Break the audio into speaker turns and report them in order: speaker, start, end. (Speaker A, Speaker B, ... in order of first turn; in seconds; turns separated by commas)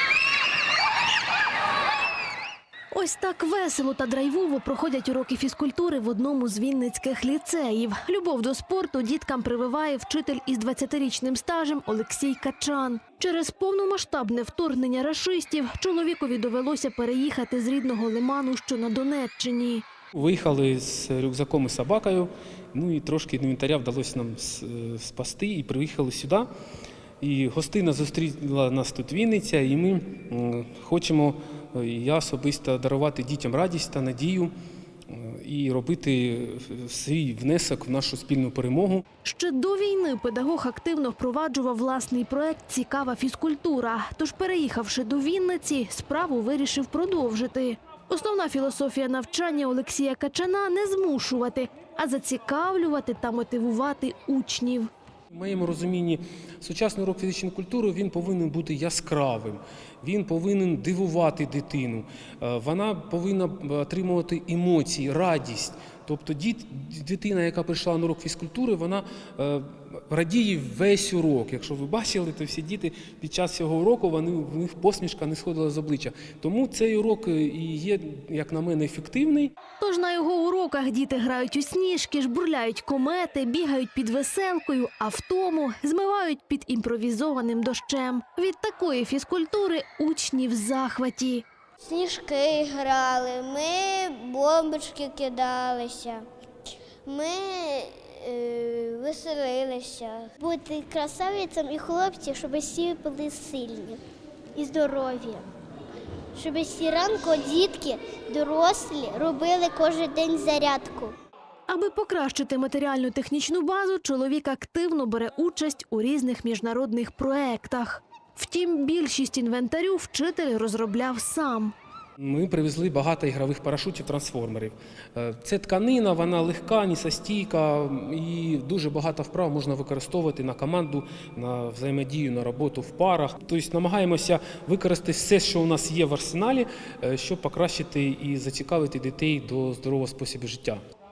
Speaker A: 2.9-19.9, Speaker B: 20.1-26.5, Speaker B: 27.2-34.5, Speaker B: 35.1-39.0, Speaker A: 39.2-54.9, Speaker B: 55.3-79.5, Speaker A: 79.8-91.5, Speaker C: 91.8-96.3, Speaker C: 97.1-104.0, Speaker C: 104.6-105.5, Speaker C: 106.3-111.2, Speaker A: 111.7-121.8, Speaker B: 122.2-140.8